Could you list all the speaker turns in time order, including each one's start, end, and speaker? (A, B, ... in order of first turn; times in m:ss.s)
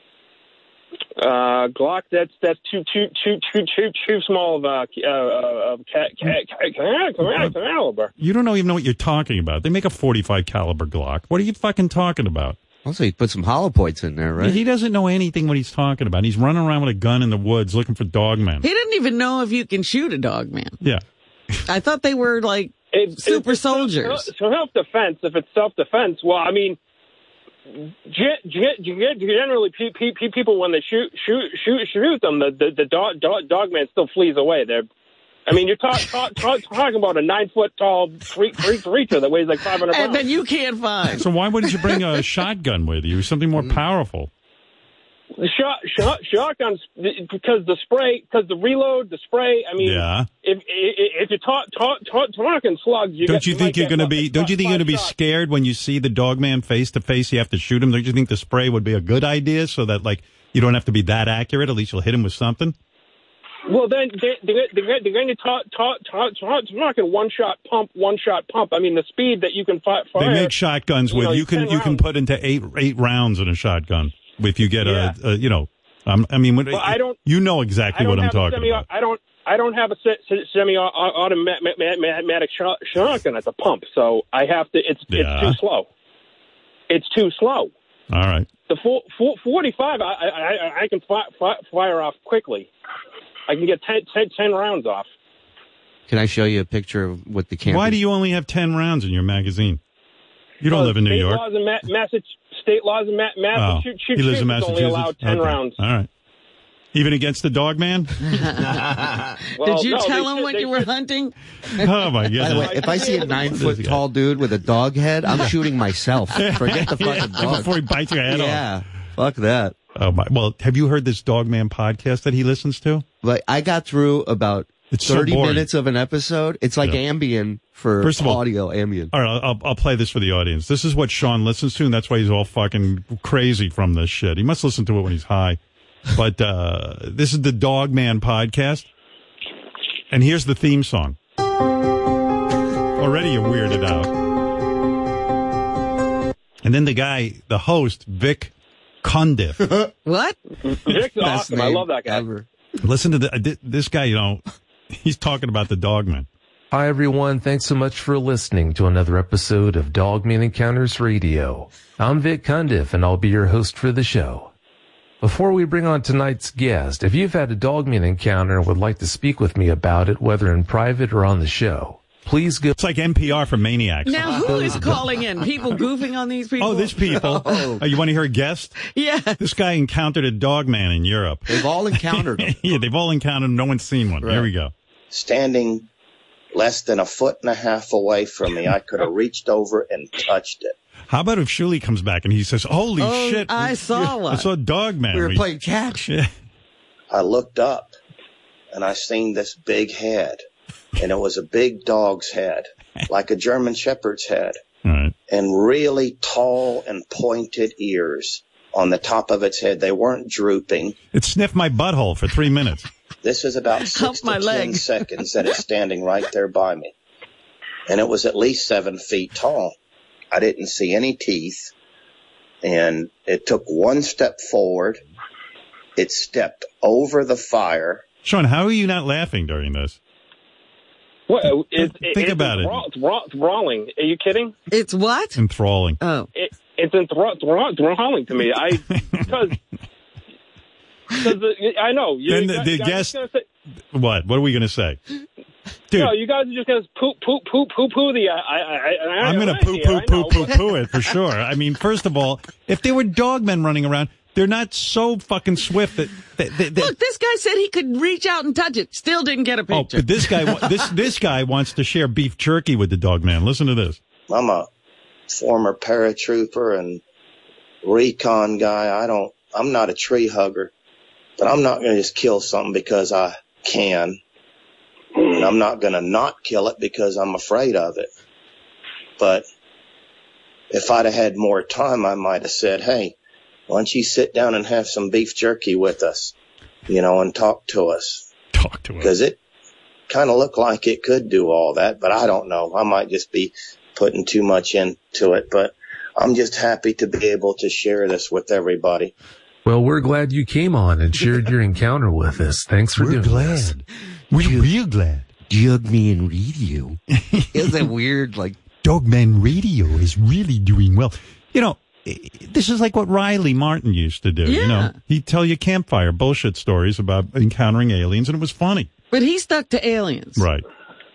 0:01.2-0:08.1 A
0:07.2-0:07.5 B
0:08.2-0:12.6 B
0:12.8-0:14.6 C
0:14.4-0:18.6 B
0:18.6-0:20.8 D
0:21.7-0:24.3 D
0:22.9-0:26.8 A
0:27.7-0:34.9 A
0:35.5-0:40.2 A
0:39.8-0:41.2 D
0:41.2-0:44.3 B
0:45.4-0:55.1 A
0:49.8-0:50.3 B
0:53.2-1:02.7 B
1:03.7-1:10.5 A
1:10.2-1:18.8 B
1:11.1-1:12.0 A
1:14.8-1:15.2 A
1:16.7-1:17.2 A
1:17.9-1:25.9 A
1:25.1-1:25.6 B
1:26.9-1:27.7 A
1:28.1-1:28.5 B
1:28.7-1:32.7 A
1:33.5-1:35.1 A
1:36.1-1:38.0 C
1:37.6-1:39.8 B
1:40.6-1:41.4 B
1:40.7-1:45.8 A
1:43.5-1:46.1 B
1:46.9-1:48.4 B
1:48.3-1:48.6 D
1:49.6-1:50.9 A
1:49.6-1:51.9 D
1:51.7-1:54.0 B
1:52.4-1:57.7 C
1:52.5-1:53.5 A
1:56.3-1:58.7 B
1:58.2-1:59.8 C
2:00.0-2:03.0 B
2:03.2-2:09.1 C
2:04.9-2:05.7 B
2:08.0-2:08.4 B
2:09.1-2:15.6 B
2:16.1-2:18.9 B
2:20.1-2:21.2 B
2:23.0-2:24.1 B
2:26.6-2:28.5 B
2:29.0-2:29.7 B
2:29.6-2:29.9 C
2:30.0-2:30.4 D
2:30.7-2:32.3 A
2:30.9-2:32.4 C
2:32.8-2:34.4 B
2:34.9-2:36.3 B
2:36.7-2:44.5 E
2:45.2-2:52.7 E
2:52.8-2:55.0 B
2:54.0-2:57.7 D
2:56.6-2:58.8 B
2:57.2-2:57.8 C
2:58.9-2:59.4 D
2:59.4-3:04.7 B
3:01.5-3:02.7 C
3:04.2-3:04.5 C
3:05.1-3:05.9 F
3:06.5-3:10.7 F
3:11.1-3:15.5 B
3:13.0-3:14.5 D
3:15.1-3:16.1 C
3:16.0-3:16.3 B
3:17.1-3:17.9 F
3:18.7-3:20.4 F
3:21.0-3:24.6 F
3:24.8-3:25.1 B
3:25.3-3:31.0 F
3:31.1-3:32.9 B
3:33.2-3:36.9 F
3:33.9-3:35.0 D
3:37.9-3:39.7 F
3:40.3-3:41.7 F
3:42.6-3:45.0 F
3:46.0-3:48.0 F
3:48.2-3:50.0 B
3:51.3-3:54.5 A
3:51.8-3:52.8 B
3:54.7-3:55.4 D
3:55.4-3:56.0 B
3:56.0-3:56.3 D
3:56.3-3:59.6 A
4:01.2-4:03.4 A
4:02.3-4:03.1 B
4:03.9-4:05.0 B
4:05.9-4:10.7 A
4:09.2-4:16.9 B
4:16.8-4:20.7 D
4:19.7-4:24.0 B
4:24.3-4:24.7 F
4:25.3-4:27.0 F
4:27.8-4:30.7 F
4:31.4-4:34.2 F
4:35.2-4:38.1 F
4:39.2-4:39.4 F
4:40.7-4:43.1 F
4:43.7-4:46.3 F
4:46.9-4:48.3 F
4:48.5-4:49.1 B
4:49.0-4:49.4 F
4:50.1-4:59.1 F
4:59.6-5:03.7 E
5:02.9-5:05.3 B
5:04.4-5:04.7 C
5:05.3-5:07.0 C
5:07.1-5:07.9 B
5:07.5-5:08.6 C
5:08.8-5:18.9 B
5:14.4-5:14.9 D
5:19.1-5:20.4 D
5:20.4-5:20.6 B